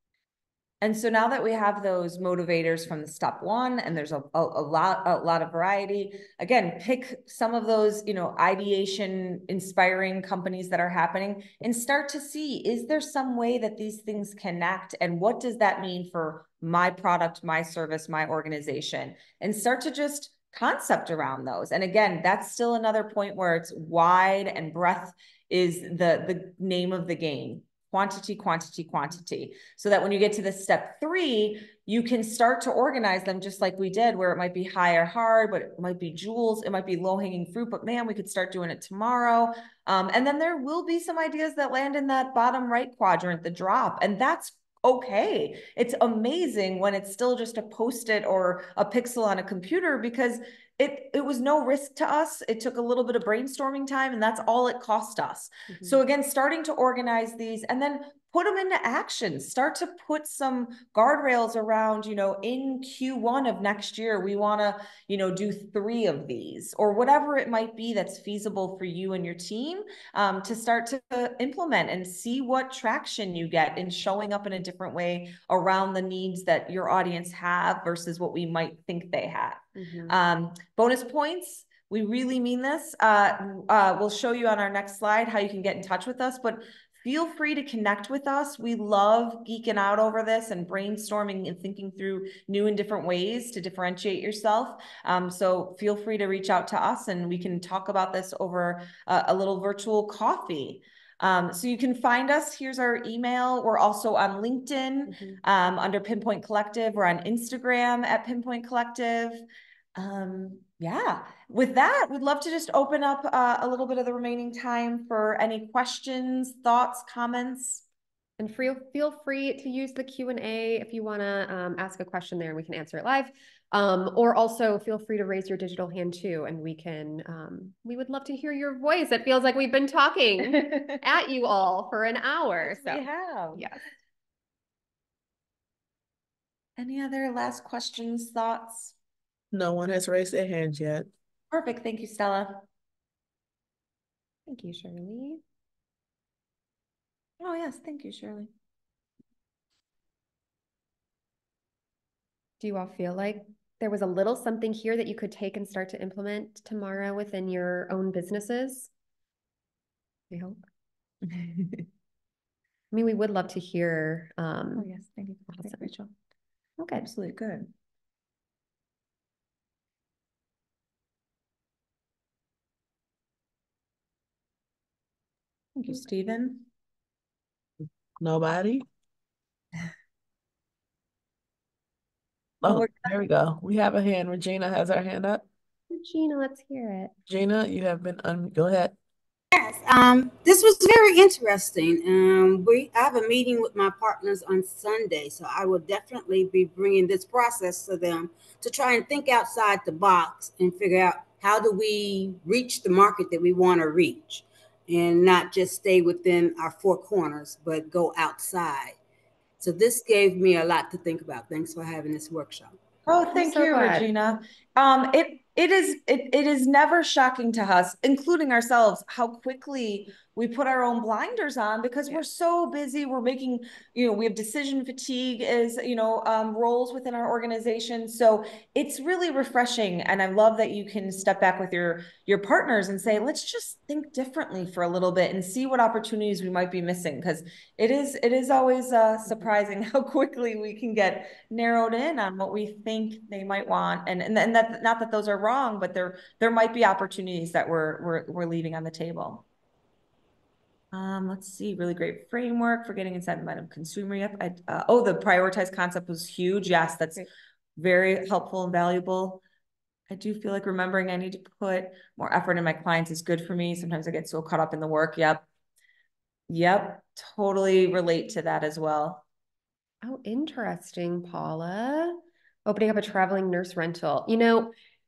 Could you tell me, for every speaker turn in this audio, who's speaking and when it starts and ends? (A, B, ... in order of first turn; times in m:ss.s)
0:00.8-1:49.4 A
0:55.7-0:56.0 B
1:19.8-1:20.1 B
1:45.1-1:45.4 B
1:50.0-1:57.8 A
1:58.4-2:13.8 B
2:10.7-2:10.9 A
2:12.6-2:13.7 A
2:16.8-2:18.9 A
2:19.5-2:21.1 C
2:21.5-2:22.6 A
2:24.5-2:25.4 B
2:27.4-2:28.5 A
2:32.6-2:38.9 B
2:40.3-2:40.6 B
2:41.2-2:41.9 A
2:42.9-2:44.8 B
2:44.8-2:46.1 A
2:45.5-2:45.9 B
2:46.9-2:47.7 A
2:55.8-2:56.7 A
2:58.2-2:58.8 C
3:02.6-3:05.4 C
3:02.6-3:03.2 A
3:05.9-3:07.1 B
3:07.3-3:09.0 C
3:09.5-3:29.0 D
3:29.6-3:32.8 D
3:33.0-4:09.4 A
3:33.3-3:34.1 B
4:10.9-4:19.4 A
4:20.1-4:25.4 A
4:26.5-4:29.2 A
4:30.0-4:34.7 B